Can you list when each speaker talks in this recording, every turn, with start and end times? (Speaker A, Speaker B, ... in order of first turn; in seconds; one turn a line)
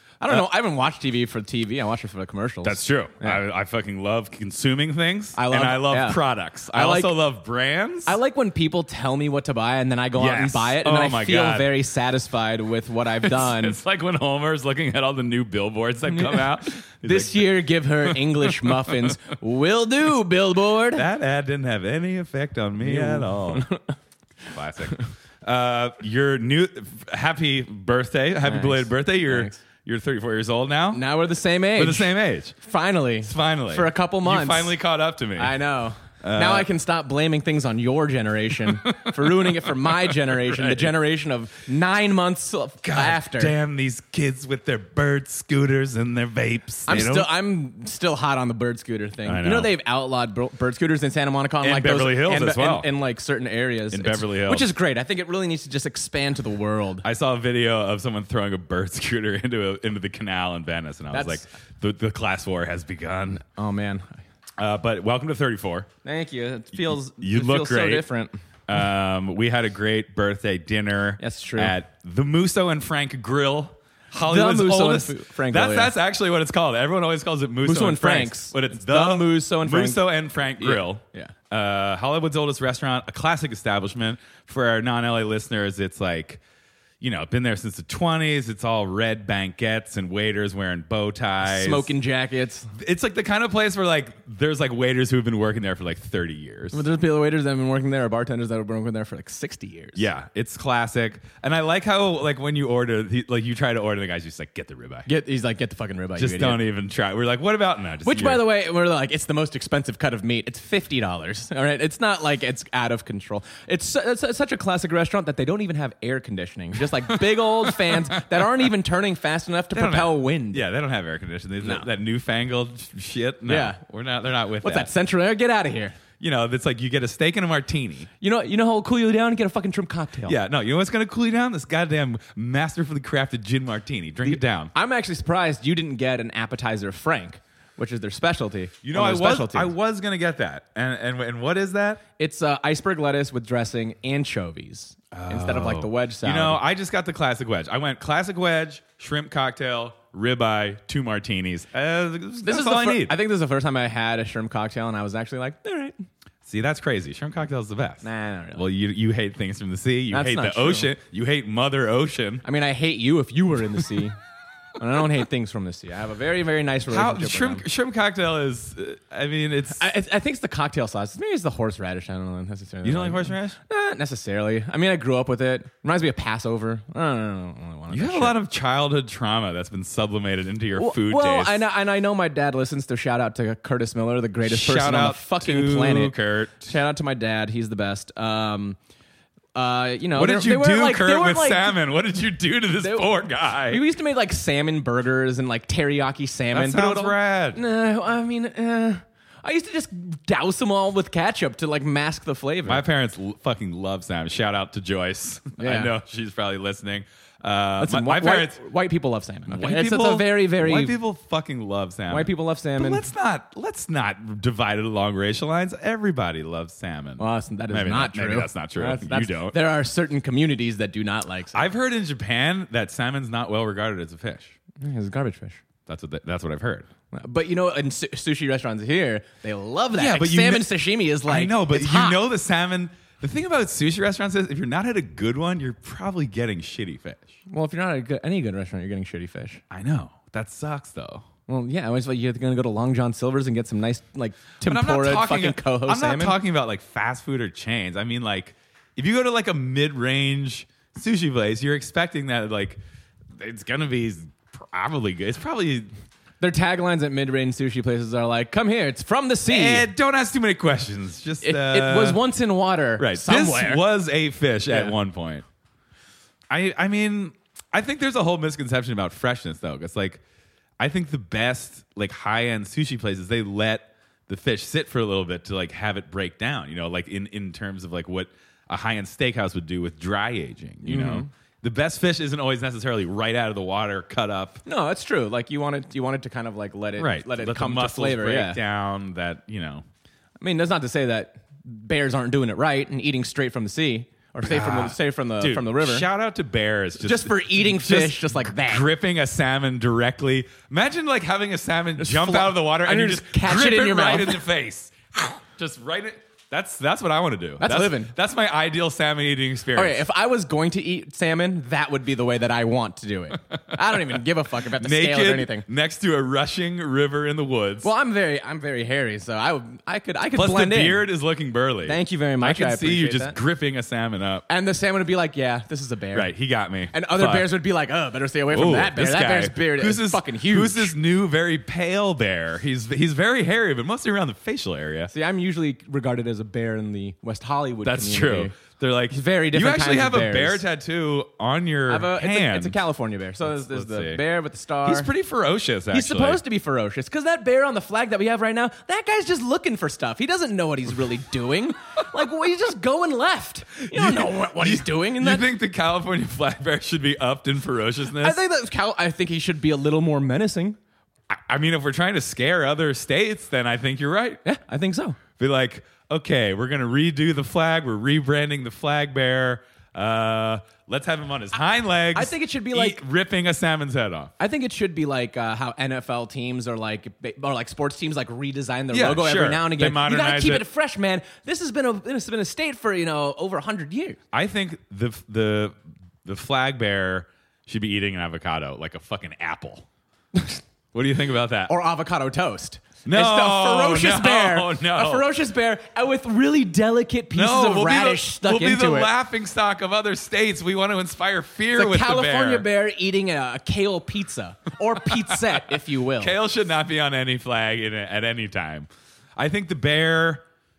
Speaker A: 0.2-3.4
Speaker B: 2.6-8.2
Speaker A: 5.3-6.2
Speaker A: 6.7-7.1
Speaker A: 8.1-13.8
Speaker B: 10.2-11.7
Speaker B: 13.2-19.1
Speaker A: 16.1-21.1
Speaker B: 20.9-23.6
Speaker A: 22.8-23.9
Speaker B: 24.5-31.0
Speaker A: 28.4-29.6
Speaker A: 30.9-32.1
Speaker B: 31.7-32.6
Speaker A: 32.6-34.7
Speaker B: 33.2-35.5
Speaker A: 35.4-43.5
Speaker B: 36.2-36.7
Speaker B: 38.9-40.9
Speaker B: 42.8-47.3
Speaker A: 46.9-57.0
Speaker B: 49.2-49.7
Speaker B: 51.6-52.9
Speaker B: 53.9-54.7
Speaker B: 57.0-63.4
Speaker A: 61.1-61.4
Speaker A: 63.5-64.1
Speaker B: 64.6-65.9
Speaker A: 66.0-68.4
Speaker B: 67.2-68.0
Speaker B: 68.7-86.4
Speaker A: 71.2-71.7
Speaker A: 74.3-75.9
Speaker A: 77.6-80.0
Speaker A: 80.6-81.3
Speaker B: 87.0-91.9
Speaker A: 91.4-92.7
Speaker B: 92.7-96.8
Speaker A: 96.7-100.1
Speaker B: 100.0-105.1
Speaker A: 105.1-106.6
Speaker B: 106.2-108.4
Speaker A: 108.0-120.7
Speaker B: 117.7-118.0
Speaker B: 119.7-124.9
Speaker A: 123.5-123.8
Speaker A: 124.6-126.0
Speaker B: 126.2-128.1
Speaker A: 128.2-130.3
Speaker B: 130.2-134.7
Speaker A: 134.2-139.7
Speaker B: 138.8-142.0
Speaker A: 142.2-146.6
Speaker B: 145.1-153.2
Speaker A: 152.4-155.9
Speaker B: 156.4-162.4
Speaker A: 158.0-158.7
Speaker A: 160.1-160.9
Speaker A: 162.4-164.2
Speaker A: 164.8-167.6
Speaker B: 166.9-169.8
Speaker A: 169.8-178.3
Speaker B: 172.8-173.6
Speaker B: 177.9-181.6
Speaker A: 180.8-186.2
Speaker B: 184.4-186.8
Speaker A: 186.7-188.8
Speaker A: 189.5-191.8
Speaker B: 190.2-193.8
Speaker A: 192.8-193.1
Speaker A: 193.7-202.8
Speaker B: 196.5-197.6
Speaker B: 202.7-208.6
Speaker A: 205.6-205.9
Speaker A: 207.8-211.0
Speaker B: 209.5-219.6
Speaker A: 212.1-213.0
Speaker A: 217.2-221.6
Speaker B: 221.5-224.5
Speaker A: 224.8-225.6
Speaker B: 225.9-226.9
Speaker A: 227.1-232.2
Speaker B: 229.9-230.7
Speaker B: 231.2-237.3
Speaker A: 237.5-239.6
Speaker B: 239.7-241.3
Speaker A: 241.5-246.3
Speaker B: 244.6-252.8
Speaker B: 253.3-255.9
Speaker A: 256.4-259.9
Speaker B: 259.5-262.2
Speaker A: 261.4-263.8
Speaker B: 263.0-265.4
Speaker A: 264.7-264.9
Speaker B: 266.5-270.2
Speaker B: 270.8-284.6
Speaker A: 280.9-281.3
Speaker A: 284.6-288.6
Speaker B: 287.0-289.8
Speaker A: 290.4-296.1
Speaker B: 294.4-310.0
Speaker A: 297.0-298.9
Speaker A: 302.0-304.4
Speaker A: 307.6-308.1
Speaker A: 309.8-315.6
Speaker B: 314.8-317.9
Speaker A: 317.8-321.1
Speaker B: 320.3-324.4
Speaker A: 321.9-323.4
Speaker A: 324.5-326.3
Speaker B: 326.1-327.5
Speaker A: 326.9-330.9
Speaker B: 328.5-335.1
Speaker A: 335.1-338.5
Speaker B: 337.9-342.8
Speaker A: 339.1-340.6
Speaker A: 341.9-345.1
Speaker B: 343.4-344.2
Speaker B: 344.8-346.4
Speaker A: 345.9-355.5
Speaker B: 353.9-358.4
Speaker A: 358.1-360.8
Speaker B: 361.3-364.4
Speaker A: 364.4-365.2
Speaker B: 365.4-374.3
Speaker A: 372.1-373.0
Speaker A: 374.4-384.2
Speaker B: 378.9-380.6
Speaker B: 384.3-389.9
Speaker A: 390.3-390.6
Speaker B: 390.9-391.8
Speaker A: 391.7-399.1
Speaker B: 393.1-395.3
Speaker B: 397.3-402.6
Speaker A: 401.8-406.4
Speaker B: 406.2-410.4